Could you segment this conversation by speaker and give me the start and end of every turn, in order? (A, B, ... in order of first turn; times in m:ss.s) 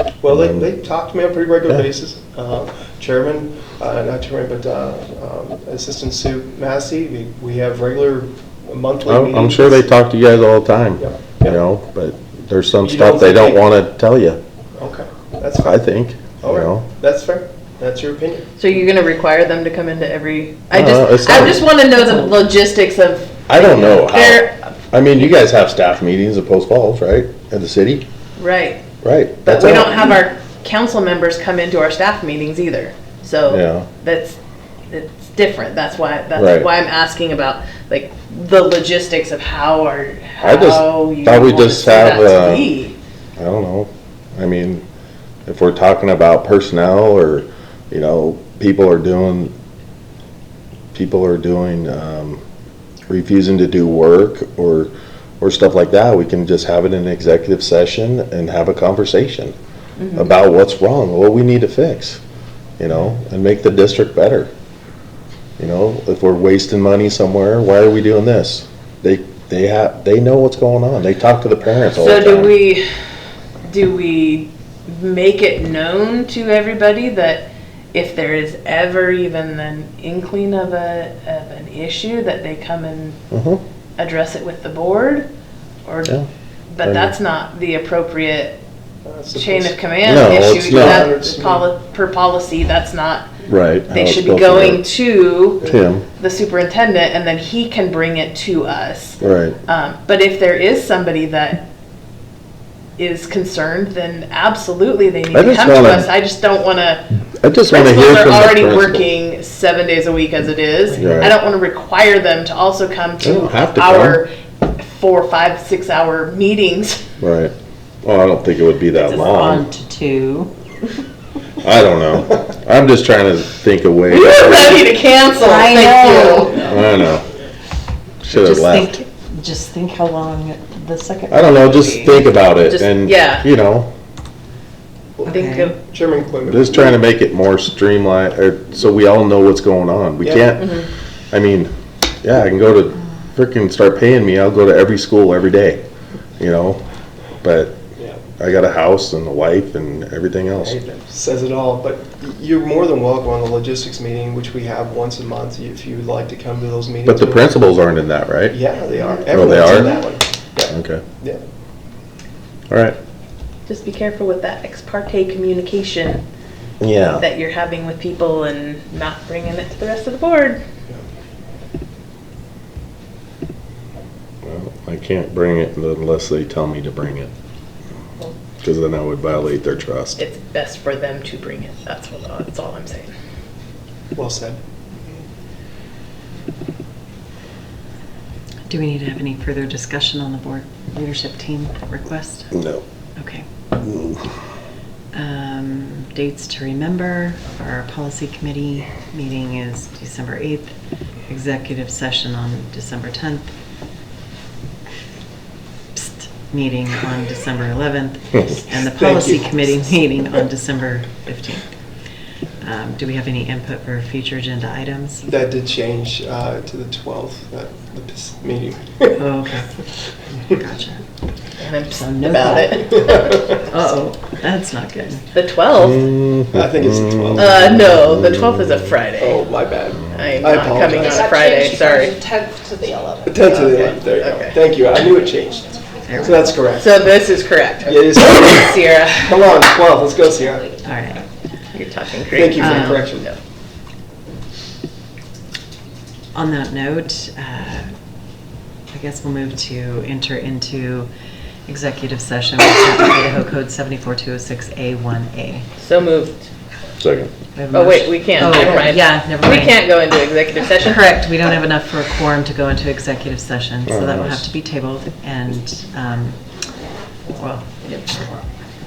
0:00.2-0:09.9 A
0:00.3-0:00.7 B
0:09.1-0:14.4 B
0:11.0-0:11.6 A
0:12.8-0:13.6 A
0:14.8-0:15.8 A
0:15.6-0:16.8 B
0:16.4-0:18.5 A
0:18.6-0:24.6 C
0:20.7-0:21.6 B
0:23.5-0:28.0 B
0:28.4-0:28.8 C
0:29.0-0:30.2 B
0:29.4-0:34.4 C
0:33.5-0:33.9 B
0:34.9-0:43.0 C
0:36.4-0:36.7 B
0:40.4-0:42.7 B
0:43.4-0:44.8 B
0:45.4-0:49.5 B
0:50.9-0:52.4 B
0:53.1-0:59.6 B
1:00.0-1:00.3 C
1:00.1-1:02.2 B
1:02.8-1:04.5 B
1:05.6-1:12.6 B
1:11.9-1:12.8 C
1:13.6-1:23.2 C
1:23.3-1:23.6 B
1:24.0-1:25.3 C
1:25.8-1:26.1 C
1:26.7-1:28.6 C
1:26.8-1:27.1 B
1:29.0-1:31.7 A
1:29.3-1:33.3 C
1:30.0-1:31.1 B
1:33.4-1:34.8 B
1:33.9-1:41.7 C
1:35.6-1:36.0 B
1:39.2-1:39.6 B
1:43.0-1:47.1 C
1:45.3-1:46.1 B
1:47.4-1:49.1 B
1:47.7-1:57.0 C
1:50.9-1:51.3 D
1:51.0-1:51.4 B
1:53.2-1:54.2 B
1:57.2-1:59.7 B
1:58.9-2:00.5 D
2:01.6-2:04.9 B
2:04.1-2:06.8 C
2:05.3-2:06.7 D
2:06.6-2:07.2 B
2:08.2-2:08.9 B
2:08.3-2:12.2 D
2:11.3-2:13.9 B
2:12.7-2:13.4 C
2:15.2-2:17.0 A
2:15.3-2:15.7 D
2:15.3-2:15.8 C
2:16.5-2:21.7 B
2:20.2-2:20.6 A
2:20.6-2:20.8 C
2:22.2-2:25.8 B
2:26.4-2:26.8 B
2:27.4-2:27.8 B
2:28.4-2:30.8 B
2:30.6-2:37.5 A
2:37.1-2:38.6 B
2:38.5-2:41.4 A
2:39.0-2:39.5 C
2:39.3-2:40.0 B
2:40.7-2:41.0 B
2:42.7-2:43.0 B
2:43.7-2:46.2 C
2:46.8-2:47.2 B
2:47.2-2:50.6 C
2:54.4-2:57.3 B
2:58.6-3:00.2 B
3:00.2-3:03.1 C
3:04.1-3:05.2 A
3:08.7-3:12.5 D
3:12.5-3:12.8 B
3:13.2-3:13.5 D
3:13.8-3:14.3 B
3:15.1-3:20.7 D
3:21.3-3:23.5 D
3:25.9-3:31.7 D
3:28.7-3:29.9 A
3:32.6-3:35.2 D
3:35.2-3:39.2 A
3:39.2-3:39.7 D
3:40.4-3:41.0 D
3:41.6-3:43.4 C
3:41.9-3:45.2 D
3:42.8-3:43.6 A
3:45.3-3:46.0 C
3:45.7-3:48.9 B
3:46.5-3:47.9 A
3:47.4-3:49.4 C
3:49.2-3:51.3 A
3:50.1-3:52.2 C
3:50.6-3:54.0 E
3:53.2-3:57.1 A
3:53.6-3:54.6 C
3:56.1-3:56.4 D
3:56.7-3:59.4 C
3:57.8-4:00.7 A
4:00.8-4:01.2 D
4:01.7-4:03.4 C
4:02.3-4:03.3 A
4:02.5-4:03.0 D
4:06.3-4:07.9 D
4:08.9-4:11.1 D
4:11.7-4:15.7 D
4:15.8-4:16.5 C
4:17.0-4:17.3 B
4:17.5-4:19.9 D
4:17.7-4:21.5 C
4:20.7-4:26.4 D
4:23.9-4:24.4 B
4:27.4-4:28.3 D